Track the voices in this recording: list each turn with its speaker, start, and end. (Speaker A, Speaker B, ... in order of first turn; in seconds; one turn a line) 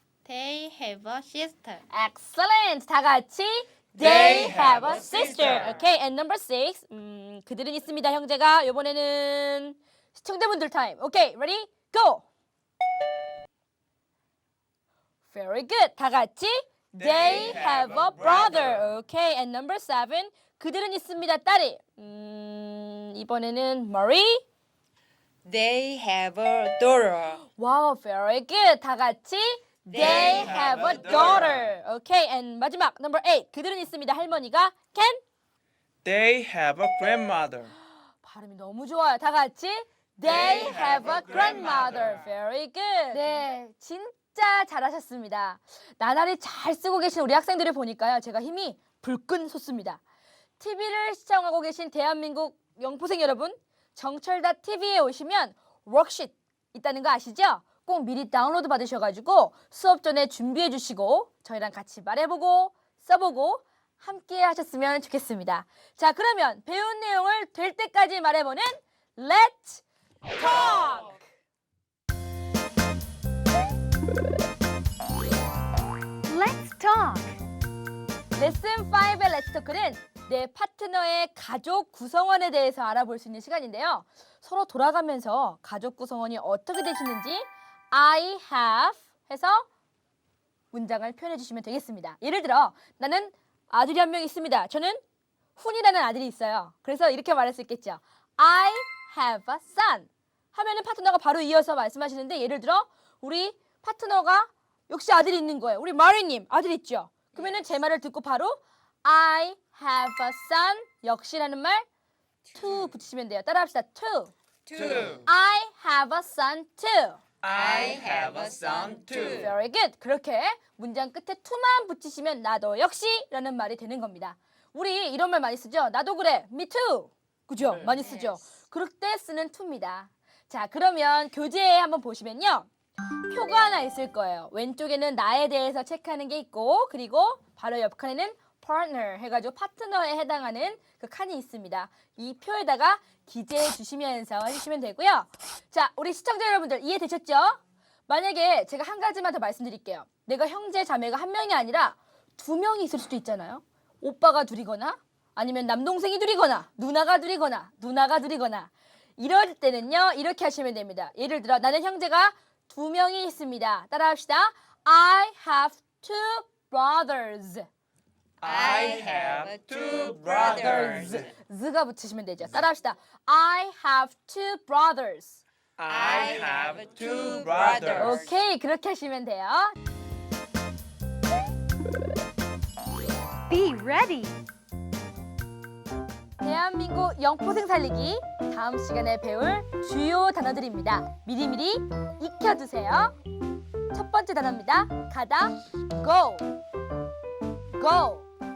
Speaker A: 0.2-1.8
Speaker B: 1.9-12.2
Speaker C: 4.0-5.7
Speaker A: 4.6-5.7
Speaker B: 15.3-24.4
Speaker C: 16.9-18.9
Speaker A: 25.4-27.4
Speaker B: 27.5-35.2
Speaker A: 29.9-31.3
Speaker C: 29.9-31.6
Speaker C: 36.0-37.7
Speaker B: 38.2-50.0
Speaker C: 40.2-42.2
Speaker A: 41.1-41.8
Speaker B: 50.6-71.2
Speaker D: 76.3-77.3
Speaker B: 76.4-77.1
Speaker B: 78.3-89.7
Speaker B: 90.7-95.0
Speaker B: 95.5-111.8
Speaker A: 112.5-112.8
Speaker B: 112.5-114.3
Speaker A: 114.7-115.2
Speaker C: 114.7-115.2
Speaker B: 114.9-117.2
Speaker C: 117.4-119.5
Speaker A: 117.5-119.5
Speaker B: 119.3-132.7
Speaker A: 128.0-128.3
Speaker B: 133.3-167.7
Speaker A: 168.4-171.2
Speaker C: 168.4-171.3
Speaker B: 170.4-175.4
Speaker C: 175.8-178.3
Speaker A: 175.9-178.3
Speaker B: 177.9-179.7
Speaker D: 183.5-184.3
Speaker B: 186.4-193.1
Speaker B: 193.9-196.5
Speaker B: 197.8-198.3